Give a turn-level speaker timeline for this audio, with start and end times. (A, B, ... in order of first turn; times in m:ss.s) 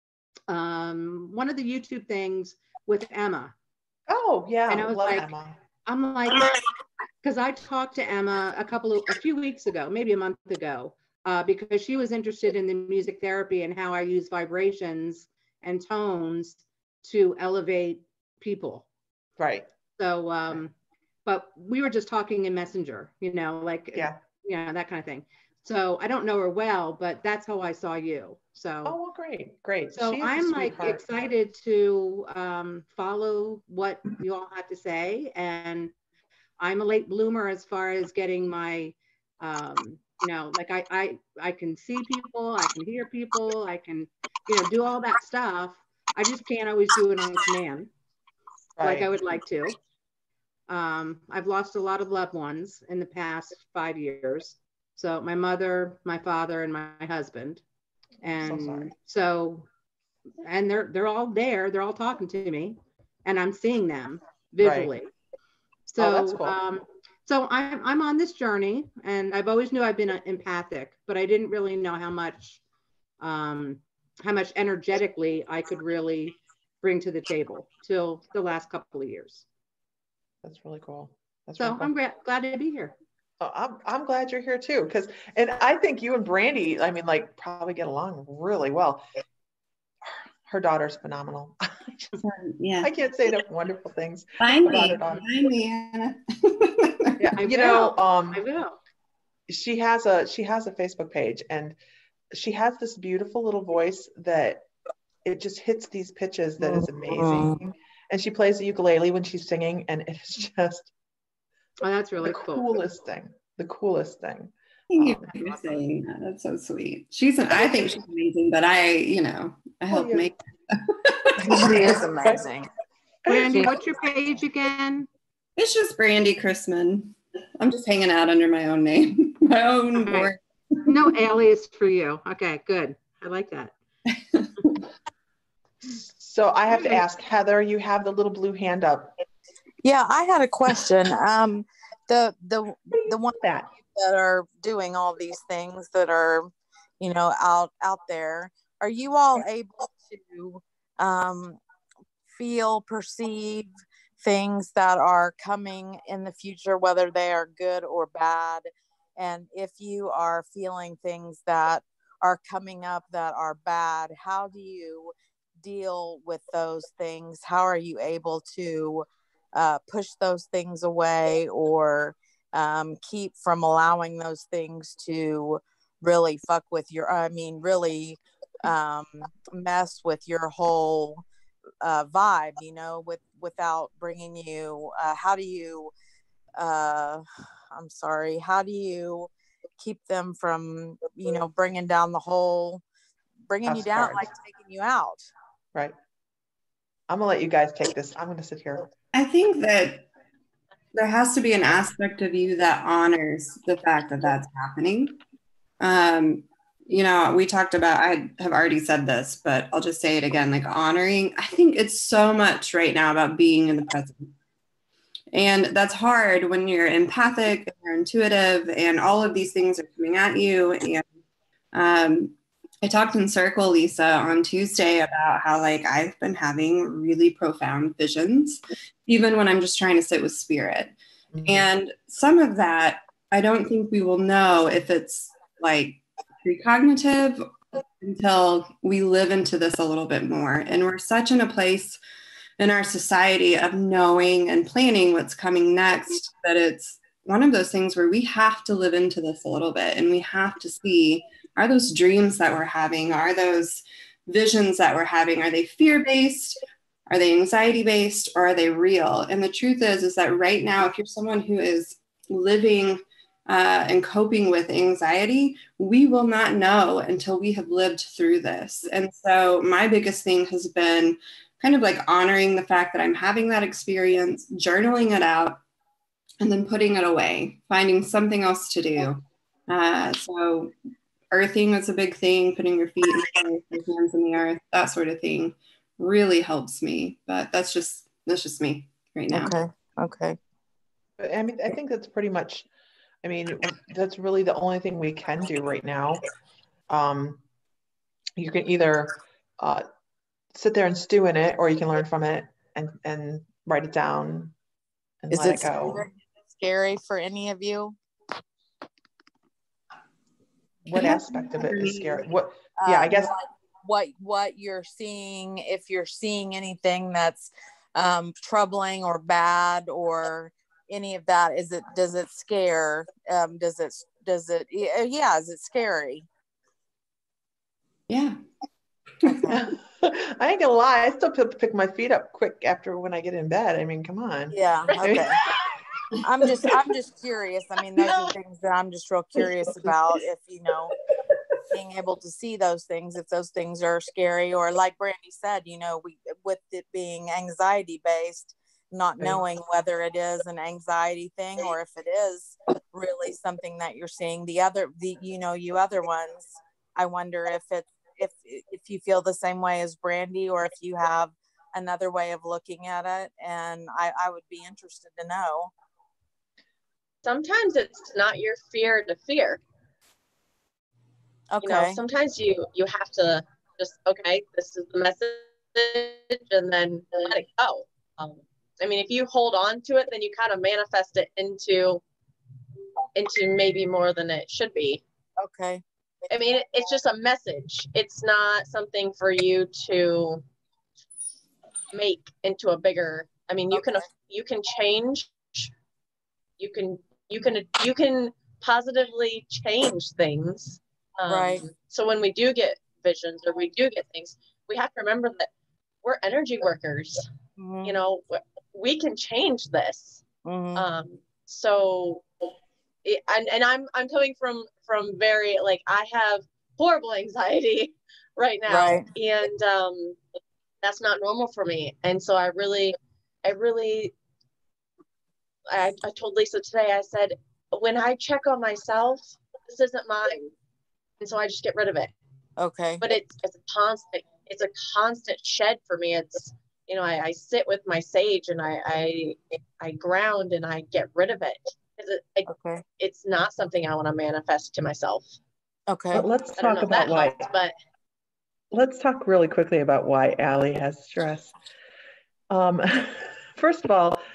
0:00.5-0:03.5 A
0:04.1-0:05.6 B
0:04.7-0:05.3 A
0:05.8-0:06.5 A
0:07.2-0:18.9 A
0:19.4-0:19.7 B
0:20.0-0:20.7 A
0:21.3-0:29.0 A
0:28.8-0:31.0 B
0:29.9-0:35.9 A
0:36.6-0:47.9 A
0:48.8-0:49.1 B
0:48.8-0:49.8 A
0:50.7-0:57.6 A
0:58.2-0:59.7 A
0:58.4-0:58.9 B
1:00.4-1:05.1 A
1:04.6-1:04.9 B
1:05.9-1:12.6 A
1:06.0-1:06.6 B
1:13.2-1:19.4 A
1:20.4-1:21.9 B
1:21.6-1:23.0 A
1:23.4-1:29.0 B
1:30.1-1:32.1 B
1:32.2-1:32.9 C
1:32.8-1:35.2 B
1:34.4-1:37.3 C
1:37.2-1:38.4 B
1:37.4-1:38.8 A
1:39.5-1:41.8 B
1:42.3-1:44.7 B
1:45.2-1:50.9 B
1:46.7-1:47.5 D
1:51.8-1:52.7 A
1:52.2-1:55.8 B
1:54.9-2:02.0 C
1:57.5-1:58.0 B
1:59.9-2:00.3 B
2:01.4-2:02.4 B
2:01.5-2:02.7 D
2:03.3-2:05.1 A
2:03.3-2:03.8 B
2:05.6-2:10.4 C
2:10.8-2:13.7 A
2:15.8-2:19.1 B
2:19.8-2:26.5 D
2:22.9-2:23.7 B
2:27.0-2:31.6 D
2:32.3-3:01.2 D
3:01.8-3:05.9 D
3:06.6-3:12.8 D
3:13.5-3:15.3 D
3:13.6-3:14.3 B
3:17.1-3:18.9 B
3:19.1-3:20.1 C
3:20.9-3:25.2 C
3:25.8-3:34.3 C
3:35.3-3:41.0 C
3:41.7-4:02.0 C
3:51.4-3:51.6 B
4:02.6-4:16.6 C
4:17.1-4:35.6 C
4:36.4-4:40.7 C
4:41.3-4:49.6 C
4:49.3-4:50.4 D
4:51.2-4:52.7 B
4:53.2-4:56.2 B
4:56.9-4:57.4 B
4:58.4-4:59.8 B
5:00.6-5:04.5 B
5:05.2-5:06.0 B
5:05.3-5:08.0 D
5:10.8-5:13.3 B
5:10.9-5:12.2 C
5:12.8-5:26.3 D
5:28.1-5:28.4 C
5:29.2-5:29.6 D
5:29.5-5:35.6 B
5:34.5-5:35.6 D
5:36.2-5:40.9 D
5:41.7-6:05.7 D
6:07.2-6:09.6 E
6:11.5-6:12.0 D
6:11.6-6:22.0 E
6:23.2-6:25.0 E
6:25.4-6:25.8 D
6:26.3-6:30.4 E
6:31.9-6:35.7 E
6:36.6-6:45.5 E
6:41.3-6:41.7 D
6:46.0-6:47.3 E
6:47.6-6:47.9 D
6:47.8-6:50.2 E
6:50.4-6:50.8 D
6:50.8-6:52.2 E
6:53.0-7:00.2 E
6:58.7-6:59.1 D
7:00.8-7:04.1 E
7:05.7-7:10.5 E
7:11.2-7:12.1 E
7:12.6-7:13.0 D
7:13.0-7:22.5 E
7:22.5-7:22.8 D
7:23.0-7:25.4 E
7:25.9-7:26.3 D
7:26.1-7:27.5 B
7:26.6-7:27.7 E
7:28.7-7:31.5 B
7:32.5-7:34.2 B